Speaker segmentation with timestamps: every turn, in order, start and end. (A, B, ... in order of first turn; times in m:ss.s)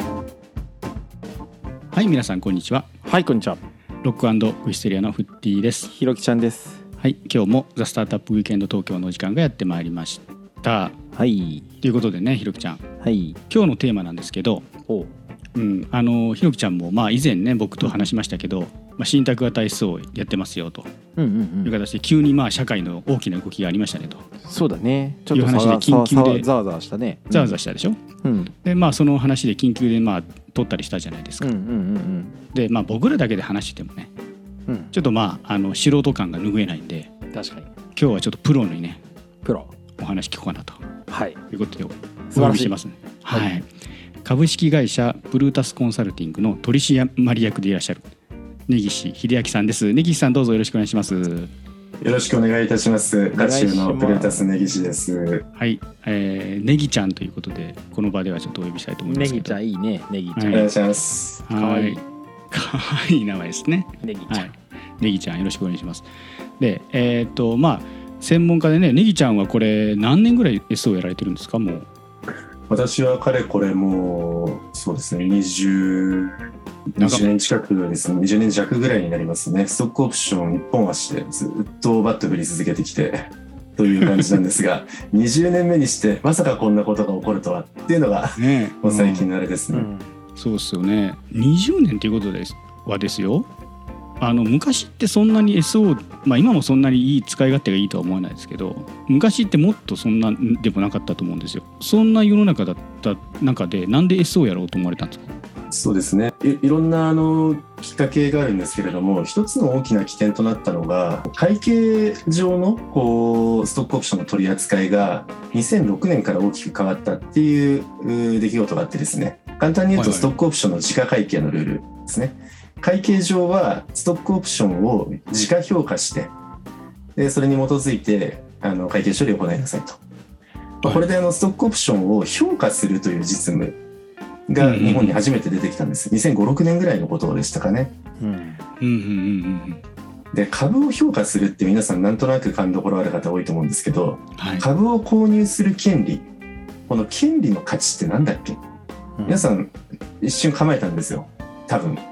0:01.9-0:02.9 A
0:03.0-0:03.6 B
0:04.0-0:05.9 A
0:05.9-0:06.8 B
0:07.0-0:11.0 A
0:11.1-0:11.6 B
0:11.8-0:12.8 A
0:13.0-0:13.4 B
0:13.5-0:14.7 A
0:14.8-0:15.1 B
0:15.5-0:20.9 A
0:21.2-0:21.7 B
0:21.6-0:24.2 A
0:24.4-0:27.6 B
0:25.3-0:26.4 A
0:27.3-0:28.0 A
0:28.2-0:28.5 B
0:28.6-0:31.5 A
0:31.4-0:32.4 B
0:32.5-0:34.1 A
0:34.7-0:34.9 B
0:34.9-0:37.1 A
0:37.3-0:37.7 B
0:38.0-0:39.0 A
0:39.4-0:39.7 B
0:40.0-0:40.8 A
0:41.1-0:41.4 B
0:41.5-0:43.7 A
0:42.3-0:42.8 B
0:44.2-0:48.0 A
0:48.7-0:51.5 A
0:52.0-0:55.4 C
0:53.3-0:54.5 B
0:55.6-0:59.6 A
0:59.0-1:00.7 B
1:00.3-1:00.7 A
1:00.5-1:01.4 C
1:01.5-1:02.0 A
1:01.5-1:02.0 B
1:02.5-1:06.0 A
1:04.0-1:04.5 B
1:06.6-1:11.9 A
1:12.7-1:16.3 C
1:17.0-1:29.9 C
1:17.0-1:17.3 A
1:28.4-1:29.3 A
1:29.7-1:30.1 B
1:30.4-1:33.5 A
1:34.2-1:45.3 A
1:45.7-2:06.3 C
1:59.9-2:00.3 A
2:07.2-2:10.0 C
2:10.8-2:13.8 C
2:14.5-2:17.9 C
2:14.6-2:15.2 A
2:18.2-2:18.6 B
2:18.8-2:19.8 A
2:20.3-2:26.3 C
2:24.4-2:24.7 A
2:26.9-2:28.6 C
2:29.2-2:29.5 B
2:29.2-2:32.0 C